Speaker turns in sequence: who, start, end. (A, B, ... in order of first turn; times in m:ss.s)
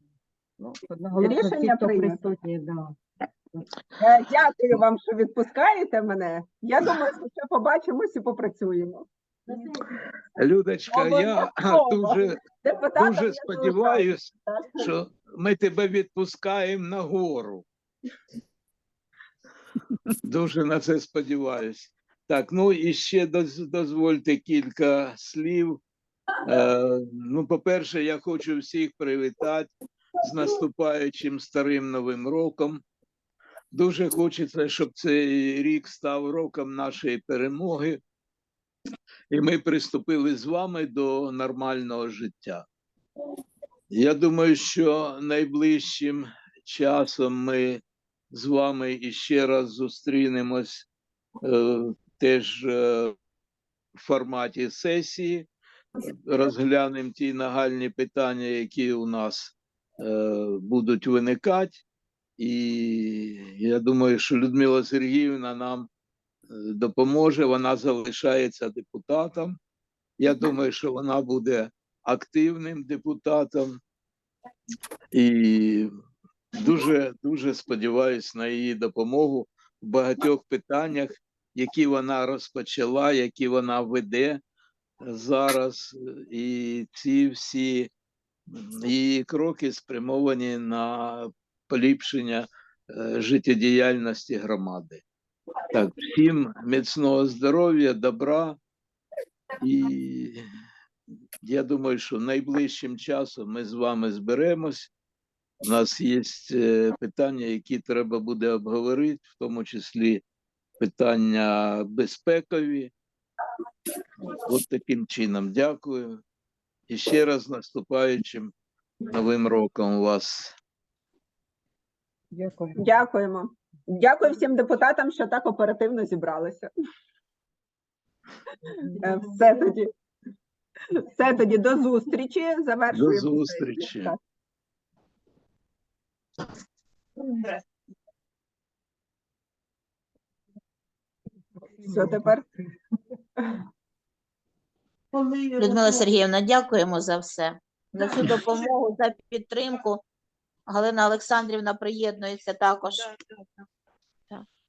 0:00.6-0:03.0 A
0:01.2-0:02.2 B
0:04.0-0:09.1 B
0:10.4-0:12.4 C
0:10.9-0:14.9 B
0:13.0-0:17.7 C
0:20.2-0:25.8 C
0:26.5-0:32.8 C
0:33.7-0:38.0 C
0:39.3-0:42.6 C
0:43.9-0:50.9 C
0:51.4-0:53.1 C
0:54.0-0:55.5 C
0:56.1-1:01.8 C
1:02.4-1:05.9 C
1:06.5-1:09.6 C
1:10.2-1:13.8 C
1:15.1-1:15.9 C
1:16.5-1:24.4 C
1:25.0-1:27.9 C
1:28.5-1:35.0 C
1:35.7-1:38.6 C
1:39.6-1:40.4 C
1:41.4-1:44.9 C
1:45.6-1:50.2 C
1:50.8-1:52.9 C
1:54.2-1:56.2 C
1:56.9-1:58.5 C
1:59.1-2:00.6 C
2:02.3-2:02.9 A
2:02.8-2:06.7 B
2:08.9-2:09.4 A
2:09.0-2:09.9 B
2:11.0-2:14.2 B
2:12.9-2:14.2 C
2:17.2-2:17.5 A
2:21.6-2:22.6 A
2:21.9-2:22.4 B
2:25.5-2:30.0 D
2:30.7-2:33.1 D